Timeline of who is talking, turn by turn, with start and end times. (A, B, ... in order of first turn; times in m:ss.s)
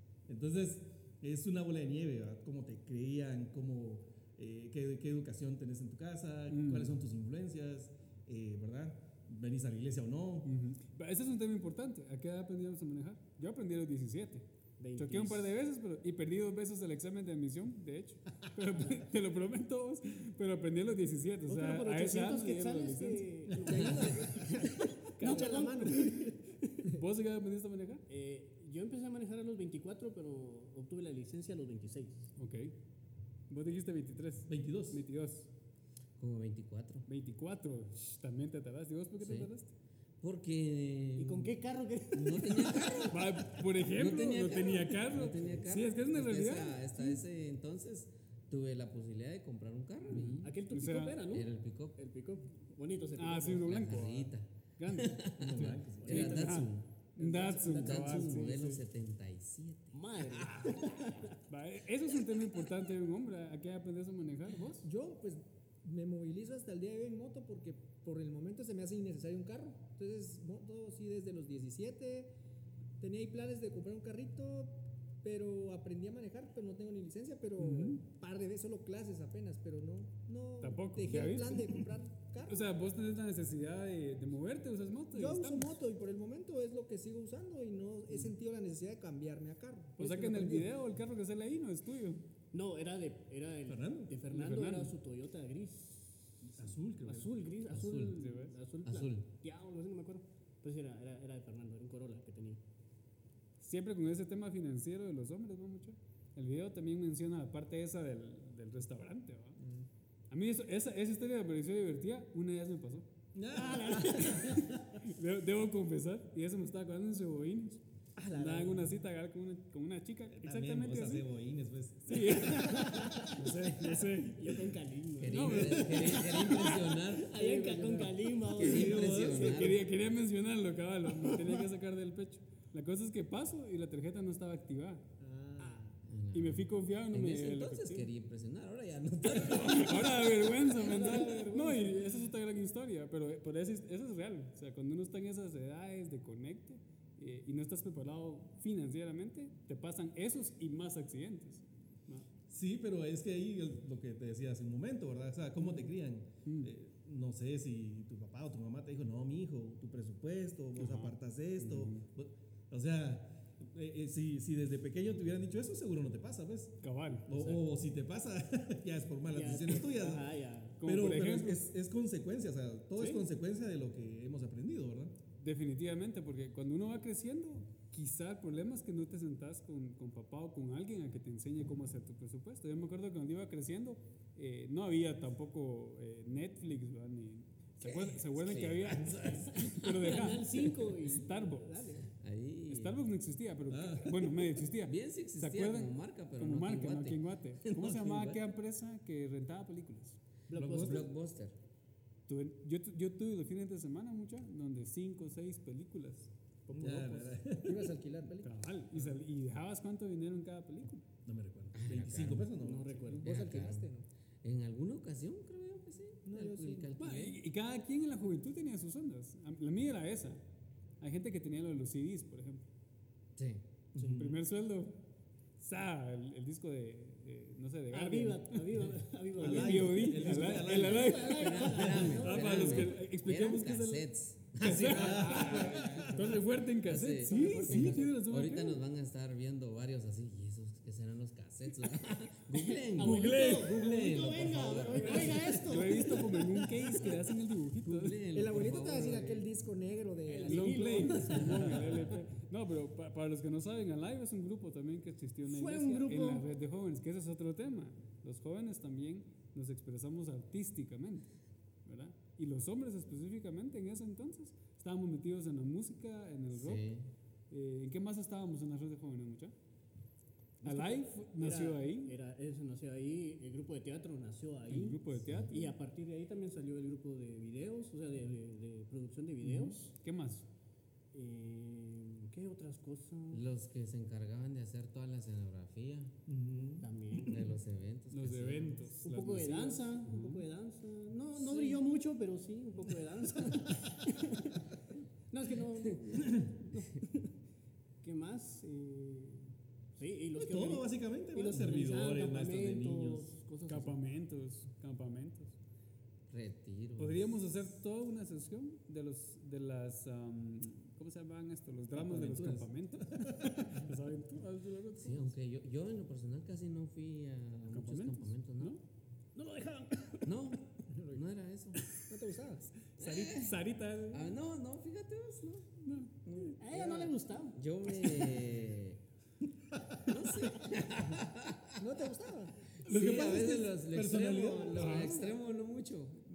0:00.3-0:10.5 A
0:06.5-0:07.0 B
0:10.4-0:23.3 B
0:14.8-0:15.5 C
0:21.5-0:26.7 C
0:23.5-0:23.8 A
0:23.6-0:26.4 D
0:23.8-0:24.3 E
0:25.2-0:25.9 B
0:26.9-0:28.0 B
0:28.1-0:32.3 C
0:32.4-0:32.8 B
0:33.5-0:35.5 B
0:34.5-0:35.0 A
0:36.2-0:37.1 E
0:37.1-0:39.7 B
0:39.2-0:39.5 E
0:40.2-0:41.5 E
0:41.2-0:43.2 C
0:42.1-0:50.5 E
0:43.1-0:47.2 B
0:50.1-0:51.2 B
0:50.4-0:53.7 C
0:51.3-0:52.0 E
0:53.2-0:58.8 B
0:53.6-1:00.9 E
0:55.4-0:56.5 A
0:56.1-0:56.4 C
0:57.2-0:58.5 C
0:59.9-1:01.3 C
1:01.5-1:04.9 B
1:04.8-1:12.3 D
1:13.0-1:22.6 D
1:17.6-1:18.0 B
1:20.6-1:21.8 B
1:22.5-1:25.8 B
1:25.1-1:30.7 D
1:30.0-1:32.2 B
1:32.5-1:42.6 C
1:33.7-1:34.1 A
1:34.3-1:34.9 B
1:36.6-1:37.4 A
1:37.7-1:38.2 E
1:38.2-1:38.6 B
1:38.8-1:39.3 E
1:43.6-1:49.6 B
1:49.6-1:49.9 D
1:50.3-1:53.1 B
1:53.4-1:55.0 A
1:53.5-1:54.7 C
1:54.2-2:01.3 B
1:58.2-1:58.9 D
2:00.3-2:03.3 A
2:02.1-2:04.6 B
2:02.5-2:03.2 C
2:04.2-2:09.7 C
2:05.2-2:07.7 E
2:05.3-2:06.2 B
2:07.5-2:08.1 D
2:08.5-2:09.8 E
2:08.6-2:09.6 A
2:09.4-2:15.0 B
2:15.2-2:16.0 D
2:15.6-2:15.9 C
2:16.1-2:20.5 E
2:16.3-2:18.1 B
2:19.4-2:32.3 B
2:20.7-2:22.2 C
2:32.5-2:50.3 A
2:35.6-2:35.9 B
2:36.4-2:36.7 B
2:40.8-2:42.1 B
2:46.8-2:47.6 B
2:49.3-2:50.8 C
2:50.8-2:51.7 B
2:50.8-2:55.1 A
2:53.0-2:53.2 B
2:55.4-3:11.8 B
3:07.8-3:10.2 E
3:09.5-3:12.1 C
3:12.1-3:13.0 E
3:12.7-3:20.2 B
3:13.7-3:14.5 A
3:14.7-3:18.4 E
3:20.5-3:21.1 C
3:20.5-3:21.1 A
3:20.7-3:21.6 E
3:22.3-3:27.4 B
3:26.7-3:27.9 A
3:27.6-3:28.6 D
3:28.4-3:31.0 B
3:31.2-3:33.1 A
3:31.7-3:32.5 E
3:32.6-3:33.4 C
3:33.1-3:34.1 D
3:33.2-3:33.9 E
3:34.4-3:37.4 E
3:36.3-3:36.9 D
3:37.0-3:40.4 B
3:41.0-3:42.7 B
3:43.4-3:43.6 E
3:43.9-3:44.4 A
3:44.0-3:45.0 B
3:45.6-3:48.6 B
3:47.9-3:53.0 C
3:49.4-3:51.3 A
3:49.4-3:58.8 B
3:51.1-4:05.7 E
3:54.8-3:56.2 A
3:57.3-3:58.0 D
4:02.5-4:06.6 C
4:03.0-4:03.8 B
4:05.0-4:08.2 B
4:07.8-4:09.5 E
4:08.3-4:11.5 D
4:10.2-4:11.9 C
4:10.5-4:21.3 B
4:15.5-4:16.5 C
4:21.8-4:26.9 B
4:26.5-4:27.1 E
4:27.5-4:29.5 B
4:30.6-4:39.9 C
4:30.6-4:32.1 B
4:34.7-4:35.7 B
4:35.2-4:35.5 E
4:39.4-4:40.5 B
4:41.1-4:43.4 C
4:43.3-4:46.1 E
4:46.3-4:46.9 A
4:46.8-4:47.5 C
4:47.2-4:48.9 E
4:48.1-4:50.0 B
4:49.0-4:54.7 C
4:50.1-4:50.4 E
4:55.3-4:57.3 C
4:58.0-5:04.0 C
5:00.4-5:03.3 A
5:03.7-5:05.6 B
5:06.3-5:07.4 E
5:07.0-5:15.3 B
5:11.9-5:13.7 A
5:15.0-5:18.8 E
5:17.7-5:18.8 B
5:19.4-5:20.3 C
5:20.2-5:21.9 E
5:20.9-5:21.2 D
5:22.1-5:22.7 D
5:22.9-5:24.4 B
5:23.0-5:29.0 E
5:25.8-5:26.5 B
5:26.6-5:27.6 C
5:30.0-5:31.8 E
5:31.8-5:32.8 D
5:32.9-5:36.3 E
5:32.9-5:33.4 B
5:32.9-5:35.0 A
5:34.7-5:35.3 B